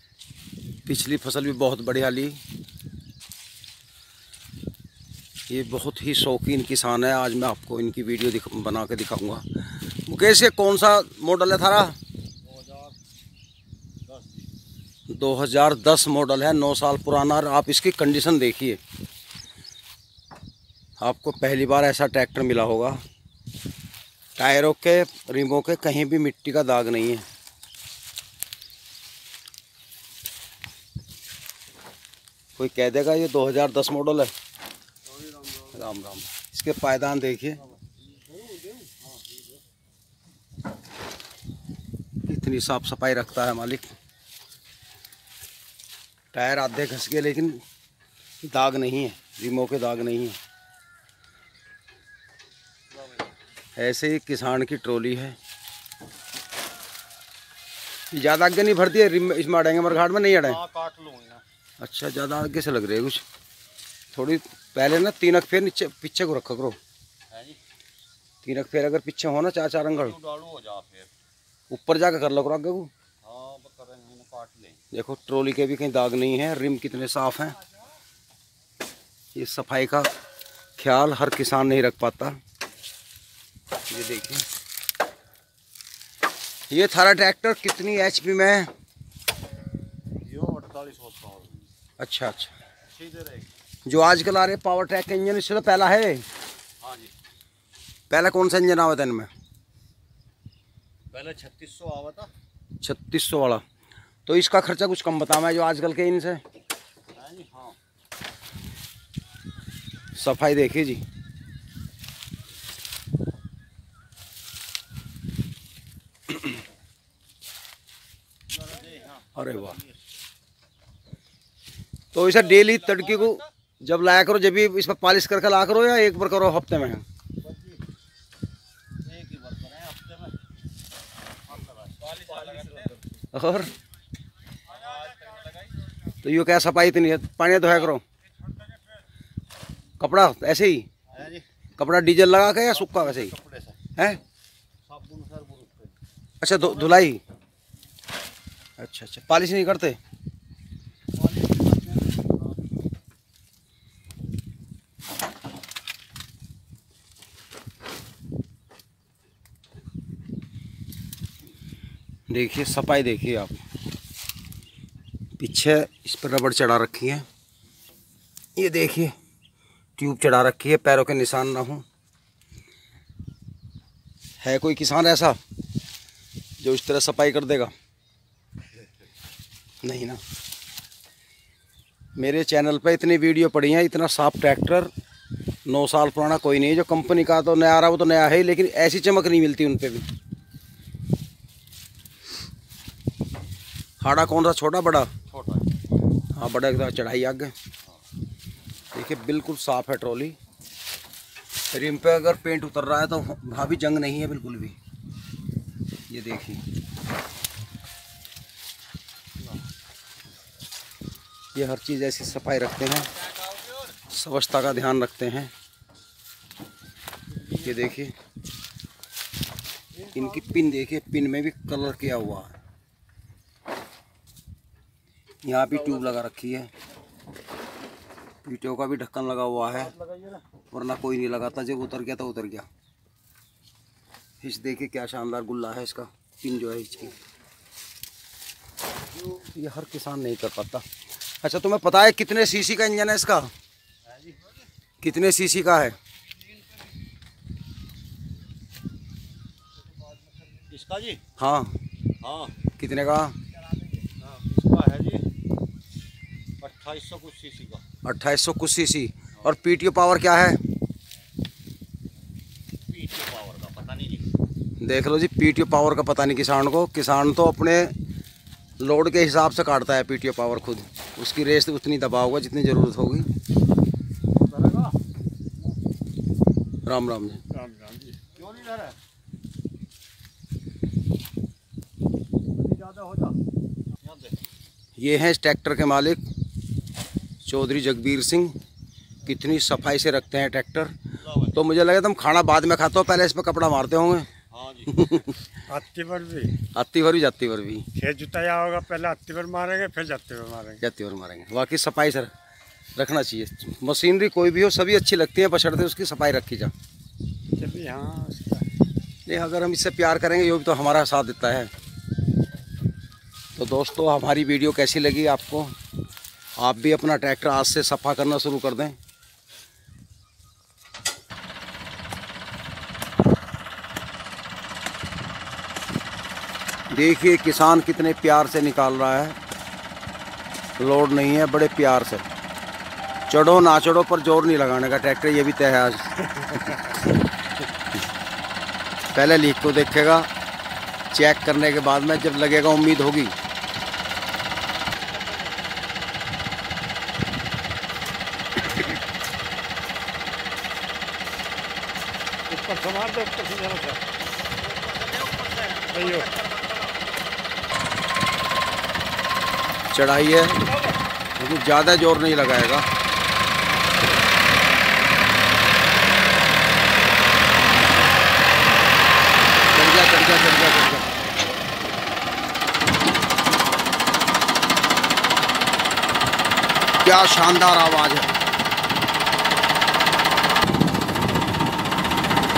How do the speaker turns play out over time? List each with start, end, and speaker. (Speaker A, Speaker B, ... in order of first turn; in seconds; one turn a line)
Speaker A: 0.9-2.4
Speaker A: 5.5-12.0
Speaker B: 12.4-13.0
Speaker B: 14.1-14.5
Speaker A: 15.1-18.8
Speaker A: 21.0-23.0
Speaker A: 24.4-27.2
Speaker A: 32.6-34.3
Speaker B: 35.2-35.8
Speaker A: 35.7-37.6
Speaker B: 38.2-39.4
Speaker A: 42.2-43.9
Speaker A: 46.3-47.6
Speaker A: 48.4-50.4
Speaker B: 52.9-53.3
Speaker A: 53.8-55.4
Speaker A: 58.1-60.6
Speaker B: 60.4-61.4
Speaker A: 61.8-63.2
Speaker A: 64.1-66.8
Speaker B: 67.3-67.6
Speaker A: 68.4-70.2
Speaker B: 69.9-71.1
Speaker A: 71.7-72.9
Speaker B: 73.2-74.8
Speaker A: 74.9-77.6
Speaker A: 79.3-80.1
Speaker A: 80.8-82.4
Speaker A: 83.9-84.5
Speaker A: 86.7-88.7
Speaker B: 90.2-91.7
Speaker A: 92.0-92.5
Speaker B: 92.9-93.5
Speaker A: 93.8-96.2
Speaker B: 96.8-97.1
Speaker A: 98.1-99.3
Speaker B: 101.1-102.3
Speaker A: 102.8-103.6
Speaker A: 104.3-106.4
Speaker B: 107.1-107.8
Speaker A: 110.2-111.0
Speaker B: 118.5-120.0
Speaker A: 119.4-119.8
Speaker A: 122.1-127.0
Speaker B: 127.4-127.8
Speaker B: 129.0-130.4
Speaker B: 131.5-132.9
Speaker A: 133.3-133.7
Speaker B: 134.7-135.7
Speaker A: 136.2-138.0
Speaker A: 140.0-140.9
Speaker B: 141.1-141.4
Speaker A: 141.8-143.3
Speaker B: 142.7-143.8
Speaker A: 144.0-144.2
Speaker B: 144.9-146.0
Speaker A: 146.4-147.2
Speaker A: 148.8-150.0
Speaker B: 151.2-152.6
Speaker A: 162.3-163.6
Speaker A: 165.4-167.2
Speaker A: 168.6-169.2
Speaker A: 170.0-171.8
Speaker A: 174.4-175.4
Speaker A: 176.6-177.7
Speaker A: 179.8-180.2
Speaker A: 182.2-184.9
Speaker A: 185.7-190.1
Speaker A: 194.0-195.1
Speaker B: 195.3-195.7
Speaker A: 196.3-197.5
Speaker A: 198.9-200.4
Speaker A: 201.7-204.8
Speaker A: 206.1-206.6
Speaker A: 211.5-213.1
Speaker A: 214.1-215.5
Speaker B: 217.3-217.9
Speaker A: 217.6-218.1
Speaker B: 220.0-220.6
Speaker A: 220.1-222.6
Speaker A: 225.4-226.7
Speaker A: 228.4-229.9
Speaker B: 229.7-230.4
Speaker A: 230.7-232.7
Speaker A: 234.4-237.2
Speaker A: 239.3-240.8
Speaker A: 241.4-243.5
Speaker B: 244.1-244.6
Speaker A: 245.0-246.0
Speaker B: 250.6-251.2
Speaker A: 251.4-251.7
Speaker B: 252.2-252.6
Speaker A: 252.8-253.4
Speaker B: 254.2-255.3
Speaker B: 256.6-257.8
Speaker A: 258.0-260.6
Speaker B: 262.9-264.3
Speaker A: 264.8-267.9
Speaker A: 268.8-273.3
Speaker B: 274.4-275.0
Speaker A: 276.9-277.4
Speaker C: 277.5-278.2
Speaker B: 278.4-279.0
Speaker B: 282.6-283.4
Speaker B: 284.0-284.4
Speaker A: 285.0-286.2
Speaker A: 287.4-288.6
Speaker A: 289.2-290.9
Speaker B: 291.2-291.6
Speaker A: 291.5-294.3
Speaker B: 294.5-295.1
Speaker A: 294.9-295.4
Speaker C: 295.7-296.5
Speaker A: 296.6-297.9
Speaker C: 298.0-300.8
Speaker A: 300.8-302.3
Speaker A: 302.9-306.7
Speaker C: 307.6-308.7
Speaker A: 309.3-311.7
Speaker A: 313.6-315.7
Speaker A: 316.6-319.0
Speaker A: 326.9-329.4
Speaker A: 330.8-332.3
Speaker A: 333.3-336.9
Speaker A: 339.1-340.3
Speaker A: 341.1-343.4
Speaker B: 345.0-345.9
Speaker C: 352.5-354.0
Speaker B: 354.5-357.2
Speaker C: 355.9-356.3
Speaker A: 359.9-360.7
Speaker A: 361.4-362.9
Speaker A: 369.7-371.1
Speaker A: 377.0-378.3